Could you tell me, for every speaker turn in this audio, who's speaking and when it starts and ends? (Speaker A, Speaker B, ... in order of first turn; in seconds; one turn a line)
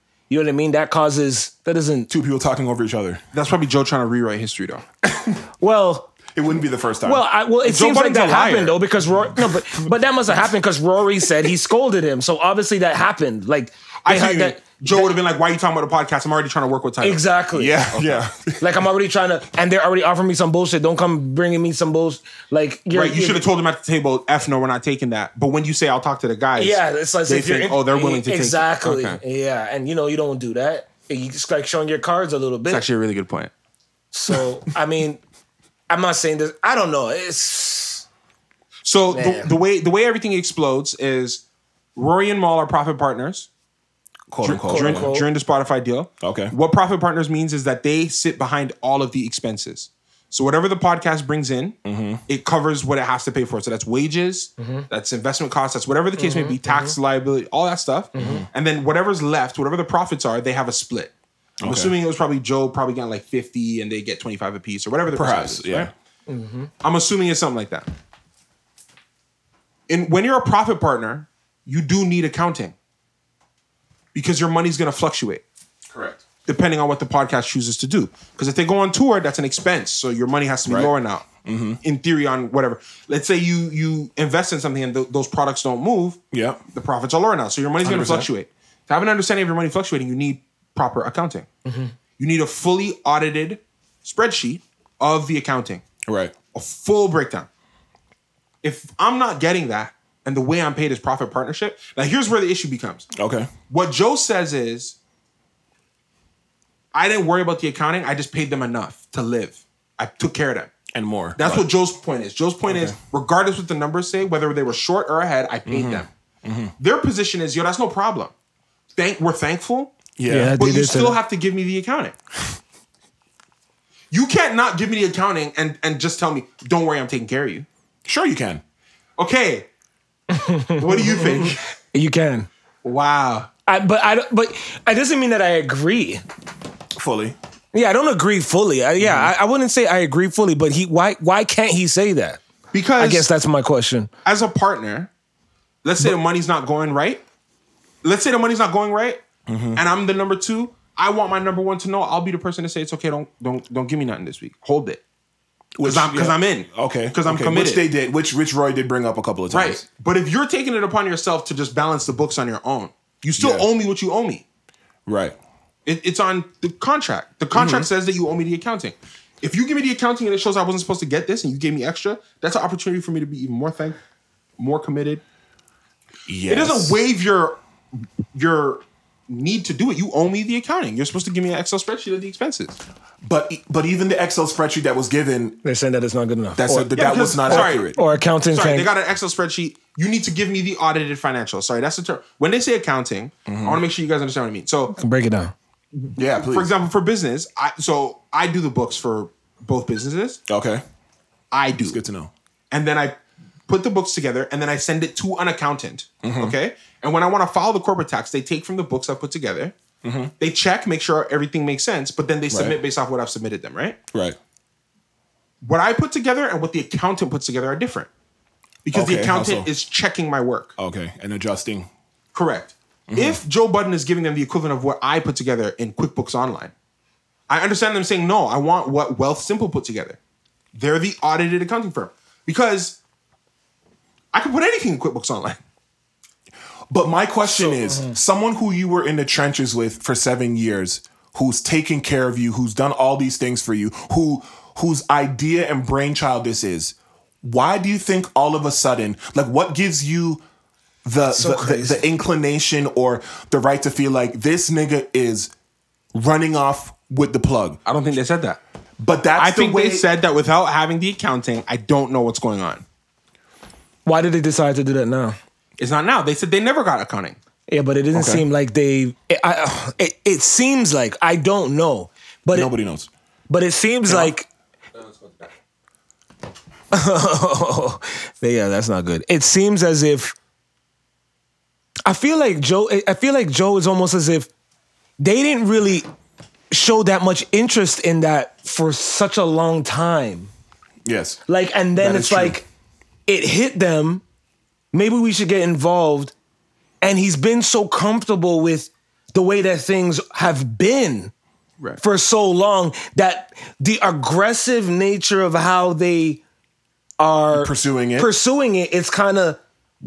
Speaker A: 0.3-2.1
Speaker B: 2.1-3.2
Speaker C: 3.3-4.8
Speaker B: 5.0-5.4
Speaker A: 5.6-6.1
Speaker B: 6.3-7.2
Speaker A: 7.0-15.1
Speaker C: 7.6-8.8
Speaker C: 14.0-17.2
Speaker A: 17.0-17.8
Speaker B: 17.5-18.6
Speaker C: 17.9-18.2
Speaker A: 18.6-23.4
Speaker C: 22.9-29.2
Speaker A: 26.6-32.8
Speaker C: 32.7-33.5
Speaker A: 34.1-35.2
Speaker A: 35.9-38.0
Speaker C: 38.8-41.4
Speaker A: 39.1-39.5
Speaker C: 42.0-43.5
Speaker B: 44.3-45.1
Speaker C: 44.4-65.9
Speaker A: 44.6-45.3
Speaker B: 46.2-46.5
Speaker B: 51.8-52.2
Speaker A: 54.6-54.9
Speaker A: 56.2-56.9
Speaker A: 58.1-58.4
Speaker B: 58.1-58.5
Speaker B: 61.6-62.0
Speaker B: 65.1-65.9
Speaker A: 66.3-66.7
Speaker C: 66.8-67.9
Speaker C: 69.9-72.7
Speaker C: 74.1-75.4
Speaker B: 75.9-76.2
Speaker C: 76.4-81.2
Speaker B: 80.7-80.9
Speaker B: 81.4-81.8
Speaker C: 81.8-86.2
Speaker B: 86.3-86.6
Speaker C: 86.7-91.5
Speaker B: 87.8-88.3
Speaker A: 91.6-91.9
Speaker C: 92.2-95.8
Speaker B: 96.0-96.3
Speaker C: 96.5-97.5
Speaker C: 98.6-103.1
Speaker B: 103.1-103.5
Speaker C: 103.7-105.0
Speaker C: 106.9-110.7
Speaker B: 110.9-111.7
Speaker C: 111.3-116.1
Speaker B: 112.7-112.9
Speaker B: 115.7-116.7
Speaker C: 116.8-118.3
Speaker C: 119.0-120.0
Speaker B: 120.2-120.6
Speaker A: 120.3-121.2
Speaker C: 120.6-122.1
Speaker C: 124.1-127.7
Speaker B: 128.1-128.6
Speaker C: 129.2-129.7
Speaker A: 130.3-132.5
Speaker C: 130.8-131.6
Speaker C: 132.8-133.5
Speaker A: 133.7-136.2
Speaker B: 136.9-137.3
Speaker A: 137.7-142.4
Speaker B: 139.0-139.3
Speaker C: 142.7-143.3
Speaker A: 143.0-144.1
Speaker C: 144.2-145.1
Speaker C: 145.8-147.2
Speaker C: 148.0-149.2
Speaker B: 149.5-149.8
Speaker C: 149.7-155.0
Speaker B: 155.8-159.8
Speaker C: 155.8-157.8
Speaker C: 159.5-164.4
Speaker B: 163.4-163.7
Speaker B: 165.1-165.3
Speaker C: 165.8-174.0
Speaker B: 167.5-167.9
Speaker C: 174.6-175.2
Speaker B: 176.3-177.0
Speaker C: 176.5-177.6
Speaker C: 178.3-182.8
Speaker B: 183.2-185.6
Speaker A: 185.6-188.9
Speaker B: 186.6-188.0
Speaker C: 186.9-194.9
Speaker B: 193.5-193.8
Speaker A: 194.9-195.5
Speaker C: 196.0-200.4
Speaker B: 196.2-196.7
Speaker B: 200.5-200.8
Speaker C: 201.5-202.0
Speaker B: 201.8-202.3
Speaker C: 202.7-203.2
Speaker C: 203.7-209.7
Speaker B: 206.2-206.5
Speaker B: 210.0-210.3
Speaker C: 210.4-214.0
Speaker B: 212.5-212.8
Speaker C: 215.6-218.1
Speaker C: 218.8-220.7
Speaker B: 218.9-219.7
Speaker B: 220.8-221.9
Speaker C: 222.3-226.7
Speaker B: 223.1-223.4
Speaker C: 227.5-230.2
Speaker C: 230.7-233.0
Speaker C: 234.3-235.6
Speaker B: 236.9-250.4
Speaker C: 237.6-237.8
Speaker A: 237.9-238.1
Speaker B: 251.0-255.5
Speaker A: 251.3-252.0
Speaker B: 256.1-257.8
Speaker C: 257.9-258.6
Speaker B: 259.0-260.1
Speaker C: 259.4-262.8
Speaker A: 264.1-265.4
Speaker C: 265.8-267.4
Speaker A: 267.7-272.7
Speaker B: 268.1-268.4
Speaker B: 272.5-273.1
Speaker A: 273.5-274.5
Speaker C: 274.9-275.5
Speaker A: 276.9-280.3
Speaker A: 282.1-284.5
Speaker A: 285.2-286.1
Speaker A: 286.7-290.5
Speaker B: 291.0-291.4
Speaker A: 291.5-292.6
Speaker B: 292.0-292.6
Speaker A: 293.3-294.2
Speaker A: 294.9-296.3
Speaker A: 297.0-301.3
Speaker A: 302.0-306.4
Speaker A: 307.2-309.6
Speaker B: 307.5-308.3